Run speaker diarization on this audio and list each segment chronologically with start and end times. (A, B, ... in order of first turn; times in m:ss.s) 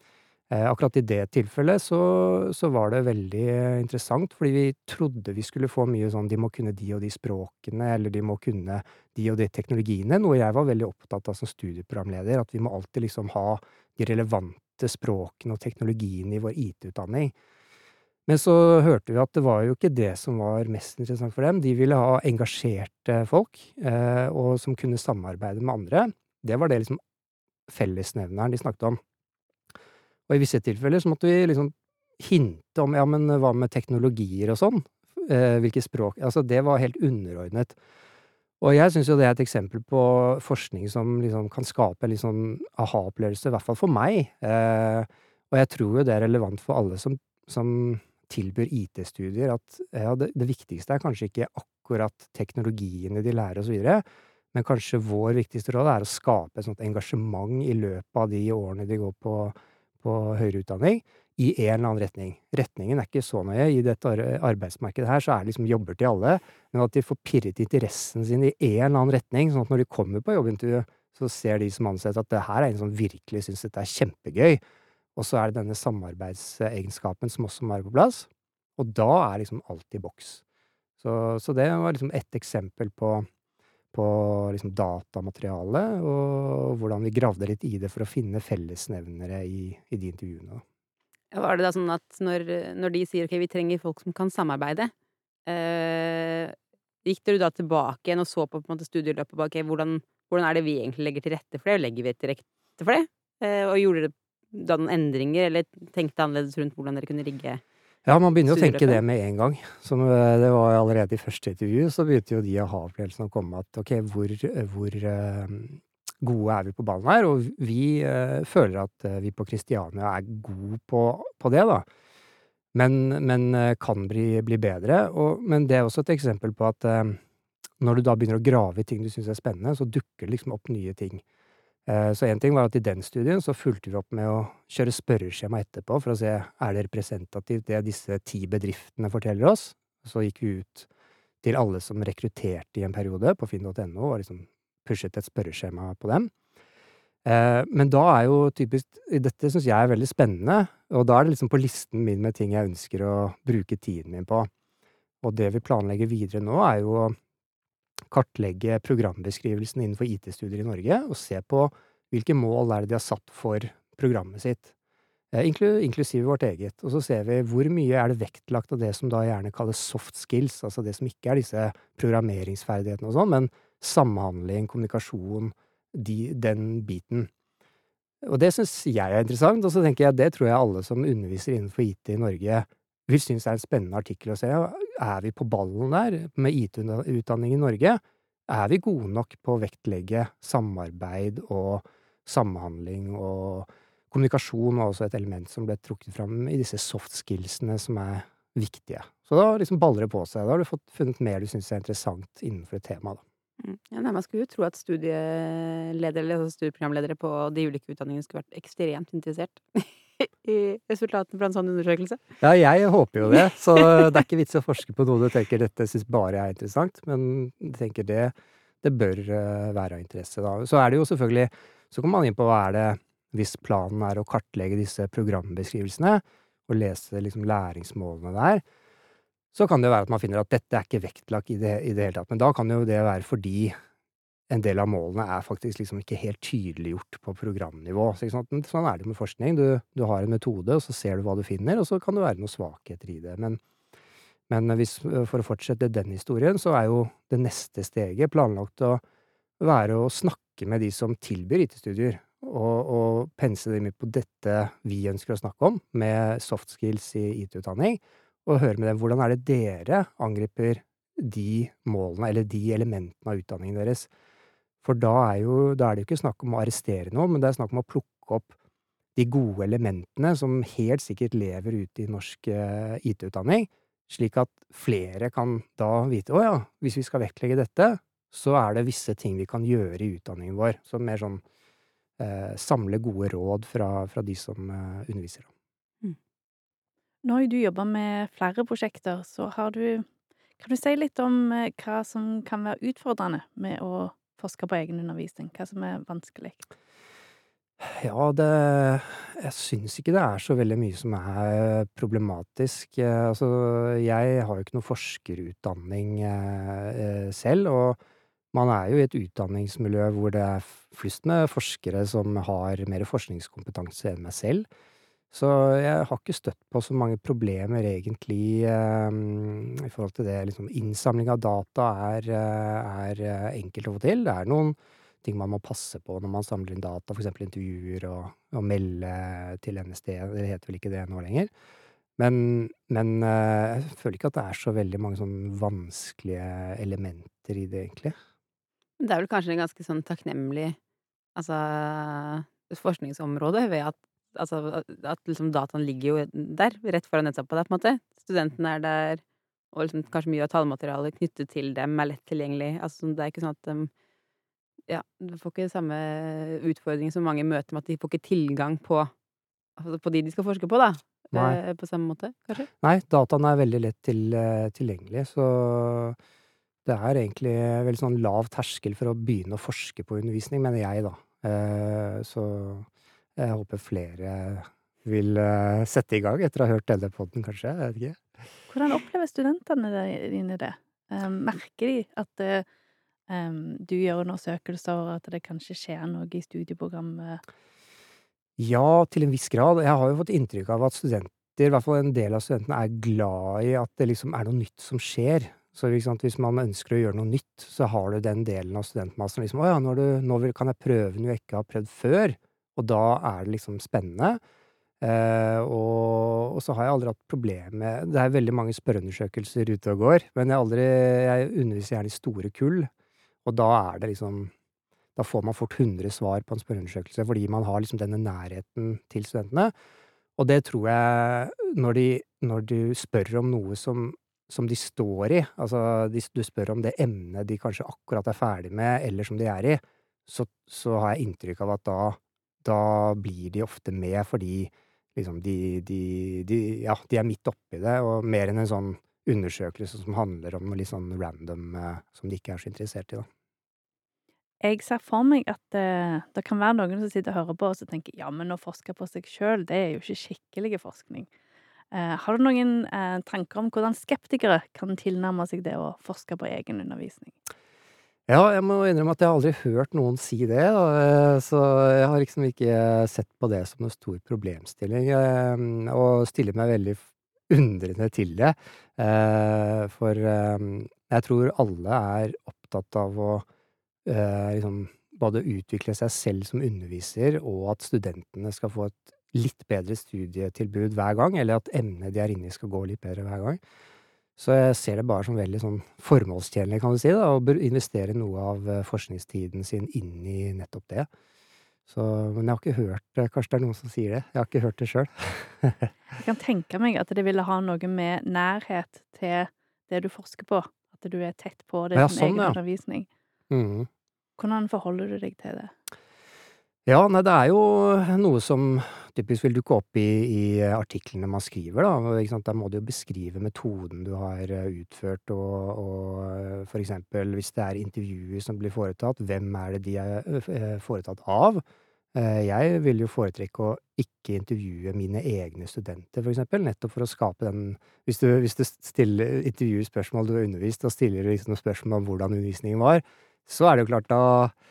0:00.5-0:17.3 A
0:18.3-0:27.0 A
0:27.7-0:29.0 A
0:30.3-0:37.8 A
0:38.6-1:14.6 A
1:15.2-1:20.4 A
1:21.0-1:23.3 A
1:23.9-1:30.6 A
1:31.3-1:34.9 B
1:35.5-1:47.6 B
1:48.0-2:01.8 A
1:48.4-1:49.0 B
2:02.7-2:07.2 A
2:07.8-2:11.2 A
2:11.8-2:20.9 A
2:21.4-2:26.3 A
2:27.2-2:34.5 A
2:35.2-2:37.2 A
2:38.1-2:44.7 A
2:45.3-2:57.3 A
2:58.2-3:23.2 A
3:23.6-3:32.2 B
3:32.4-3:48.6 A
3:49.5-3:53.7 A
3:54.5-4:03.6 A
4:04.5-4:09.0 A
4:09.6-4:24.1 A
4:24.8-4:28.5 A
4:29.2-4:41.4 A
4:42.2-4:45.5 A
4:47.2-4:50.0 C
4:50.6-4:56.7 C
4:57.8-5:08.0 A
5:08.5-5:14.7 A
5:15.3-5:31.5 A
5:32.2-5:38.1 A
5:39.0-5:40.8 B
5:41.4-5:49.2 B
5:49.7-5:53.9 B
5:54.9-5:59.1 B
5:59.8-6:02.7 B
6:01.3-6:01.6 A
6:02.8-6:06.2 A
6:06.8-6:18.2 A
6:18.7-6:22.6 C
6:23.3-6:27.4 C
6:28.6-6:44.4 A
6:45.0-6:52.9 A
6:53.4-6:54.5 A
6:55.2-6:59.7 A
7:00.4-7:23.3 A
7:24.6-7:31.3 C
7:31.9-7:37.3 C
7:38.3-7:53.4 A
7:54.0-8:03.6 A
8:04.4-8:11.1 A
8:11.9-8:15.9 A
8:16.1-8:23.1 C
8:21.9-8:22.6 A
8:23.5-8:23.9 A
8:24.4-8:25.7 C
8:26.8-8:41.6 A
8:42.1-8:54.5 A